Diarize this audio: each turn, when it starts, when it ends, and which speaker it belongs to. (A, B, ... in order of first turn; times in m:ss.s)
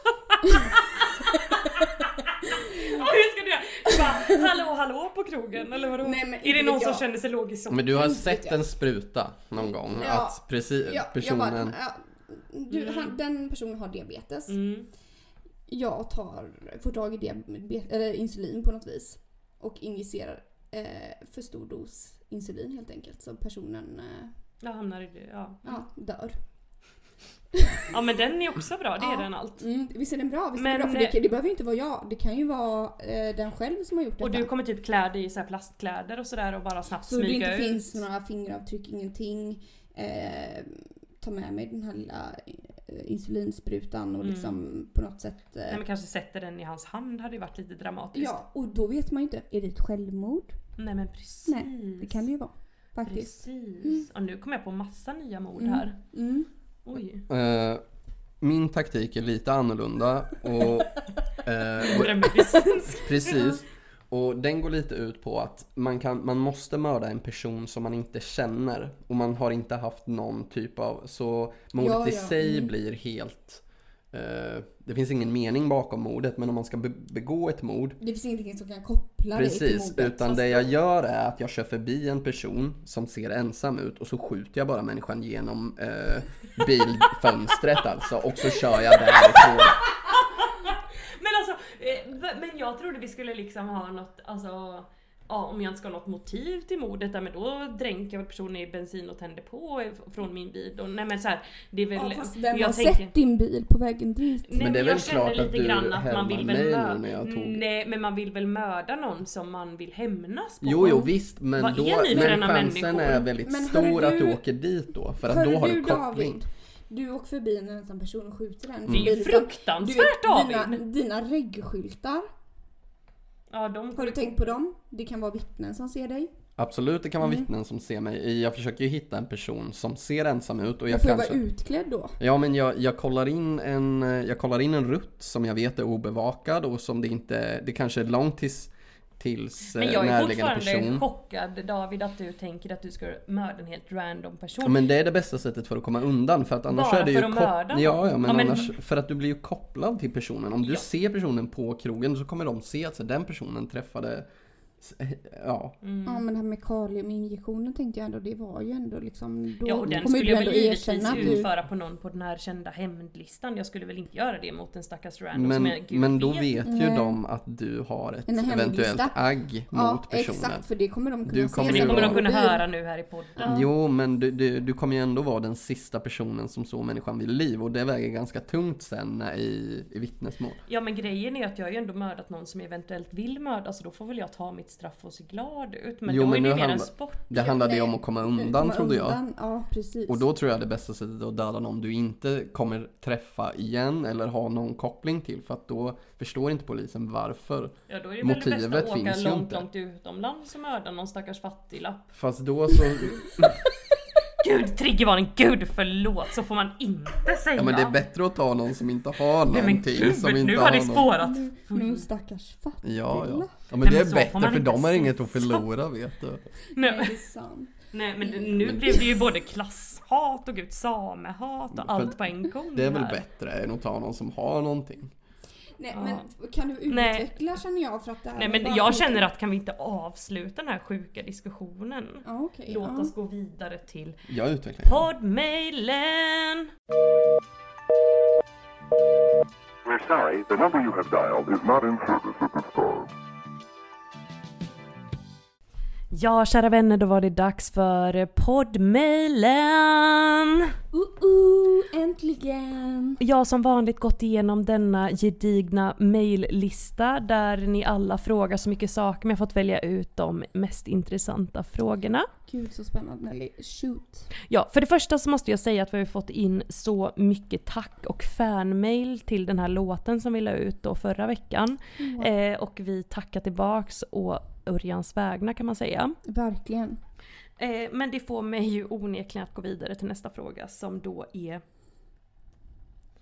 0:00.5-0:03.1 A
0:02.4-0:08.0 B
0:03.9-0:04.4 A
0:05.8-0:07.0 A
0:07.7-0:11.8 C
0:08.0-0:08.6 A
0:09.9-0:14.6 A
0:12.7-0:13.1 B
0:14.5-0:14.9 B
0:15.7-0:24.3 A
0:24.6-0:25.7 B
0:25.6-0:26.4 A
0:27.6-0:27.9 A
0:27.9-0:29.6 B
0:29.0-0:34.5 A
0:30.6-0:31.2 B
0:34.2-0:38.0 B
0:37.0-0:45.8 A
0:44.2-0:44.6 B
0:45.7-0:48.4 B
0:48.1-0:50.6 A
0:50.8-0:52.2 B
0:51.5-0:54.0 A
0:53.1-0:56.0 B
0:55.6-0:56.5 A
0:56.9-0:57.2 B
0:57.3-0:57.8 C
0:58.4-1:18.0 C
1:01.8-1:03.3 B
1:11.8-1:12.7 A
1:18.0-1:20.7 A
1:19.3-1:29.8 C
1:29.1-1:43.1 B
1:42.0-1:44.6 A
1:44.5-1:53.3 B
1:44.6-1:47.6 C
1:50.6-1:56.4 C
1:53.4-1:54.4 A
1:55.3-2:02.3 A
1:58.9-2:00.8 B
2:03.5-2:04.6 B
2:04.0-2:06.3 A
2:06.6-2:11.4 C
2:07.2-2:07.5 A
2:10.9-2:12.2 A
2:12.2-2:21.0 C
2:19.8-2:24.8 B
2:24.6-2:34.3 C
2:26.7-2:28.7 B
2:34.8-2:35.8 C
2:35.8-2:36.2 B
2:36.1-2:41.5 A
2:39.6-2:46.7 B
2:41.0-2:41.4 C
2:45.3-2:50.6 C
2:46.7-2:47.2 A
2:48.3-2:49.2 A
2:49.7-2:52.6 A
2:51.3-2:52.2 C
2:51.6-2:53.7 B
2:53.4-3:00.6 C
3:00.7-3:07.3 B
3:06.1-3:09.2 C
3:07.3-3:10.3 A
3:10.1-3:19.7 C
3:17.9-3:22.1 B
3:22.1-3:23.6 C
3:24.4-3:28.0 B
3:27.6-3:31.1 C
3:29.4-3:32.0 B
3:31.2-3:33.5 A
3:32.8-3:36.4 C
3:33.8-3:35.6 B
3:36.7-3:39.1 A
3:36.8-3:37.2 B
3:37.9-3:43.2 B
3:41.7-3:42.2 C
3:42.7-3:45.1 C
3:45.8-3:49.3 A
3:45.9-3:46.2 B
3:46.9-3:47.3 B
3:48.4-3:54.2 B
3:52.2-3:53.1 A
3:54.3-3:55.1 C
3:54.8-3:56.7 B
4:00.0-4:03.0 D
4:06.1-4:10.7 B
4:10.9-4:13.2 A
4:13.2-4:22.3 B
4:22.5-4:24.3 A
4:24.5-4:36.2 B
4:32.0-4:32.3 A
4:36.2-4:37.0 A
4:37.6-4:41.6 B